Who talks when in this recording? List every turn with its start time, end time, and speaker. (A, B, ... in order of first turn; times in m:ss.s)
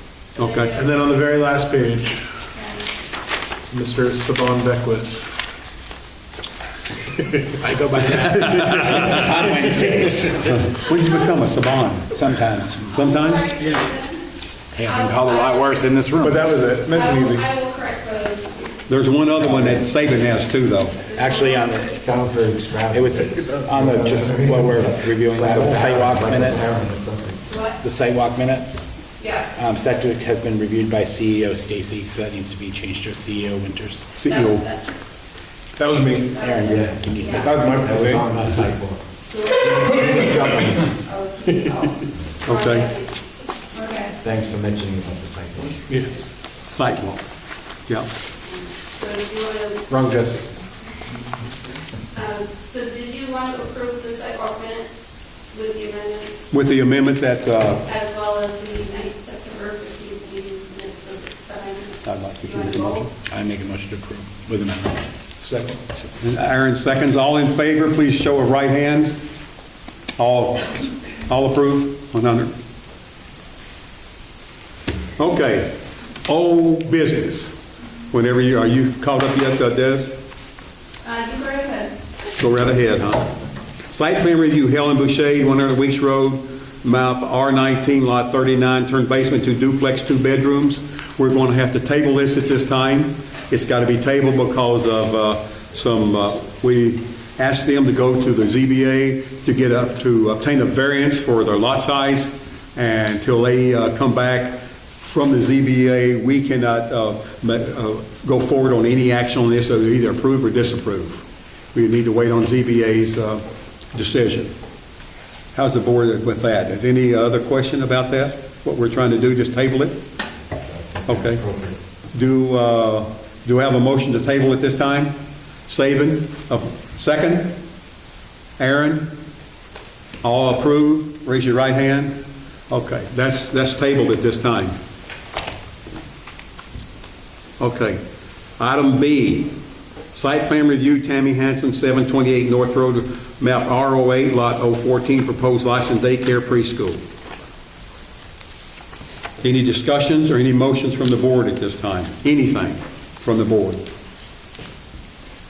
0:00.4-0:00.9 A
0:00.4-0:00.7 B
0:00.8-0:02.2 C
0:02.5-0:02.9 A
0:03.7-0:05.2 C
0:07.6-0:10.7 D
0:08.4-0:09.2 B
0:10.5-0:12.2 B
0:12.1-0:13.1 D
0:12.9-0:13.5 B
0:12.9-0:14.3 A
0:14.7-0:16.5 D
0:14.8-0:16.0 A
0:16.2-0:17.5 C
0:16.8-0:19.2 A
0:18.9-0:21.0 B
0:19.4-0:19.9 E
0:20.9-0:22.0 A
0:21.1-0:22.3 D
0:22.0-0:27.4 E
0:22.9-0:26.8 D
0:23.5-0:24.8 C
0:27.5-0:27.8 A
0:27.8-0:28.9 D
0:29.2-0:29.6 A
0:29.6-0:34.1 D
0:34.2-0:34.6 B
0:34.2-0:34.9 A
0:35.8-0:36.4 C
0:36.0-0:37.5 A
0:36.4-0:37.9 D
0:36.6-0:40.9 E
0:37.5-0:38.3 C
0:39.3-0:44.2 A
0:42.4-0:42.9 B
0:44.2-0:45.8 E
0:46.7-0:47.2 B
0:48.4-0:50.1 A
0:49.9-0:50.5 C
0:52.1-0:56.5 A
0:56.5-0:57.8 B
0:57.8-1:03.1 A
1:02.0-1:03.1 B
1:03.3-1:05.3 D
1:05.4-1:05.8 C
1:06.2-1:09.2 B
1:10.2-1:12.5 B
1:15.2-1:15.7 B
1:16.3-1:17.6 B
1:18.1-1:20.2 B
1:21.0-1:22.0 A
1:22.4-1:23.3 B
1:23.9-1:53.4 B
1:53.9-1:54.5 B
1:55.5-2:00.0 B
2:00.6-2:01.8 E
2:01.1-2:01.4 B
2:02.1-2:05.2 B
2:05.7-2:07.6 B
2:08.6-2:09.1 B
2:10.2-2:12.2 B
2:12.7-2:14.8 B
2:17.6-2:18.0 B
2:18.6-2:19.6 B
2:20.1-2:27.0 B
2:29.4-2:33.8 B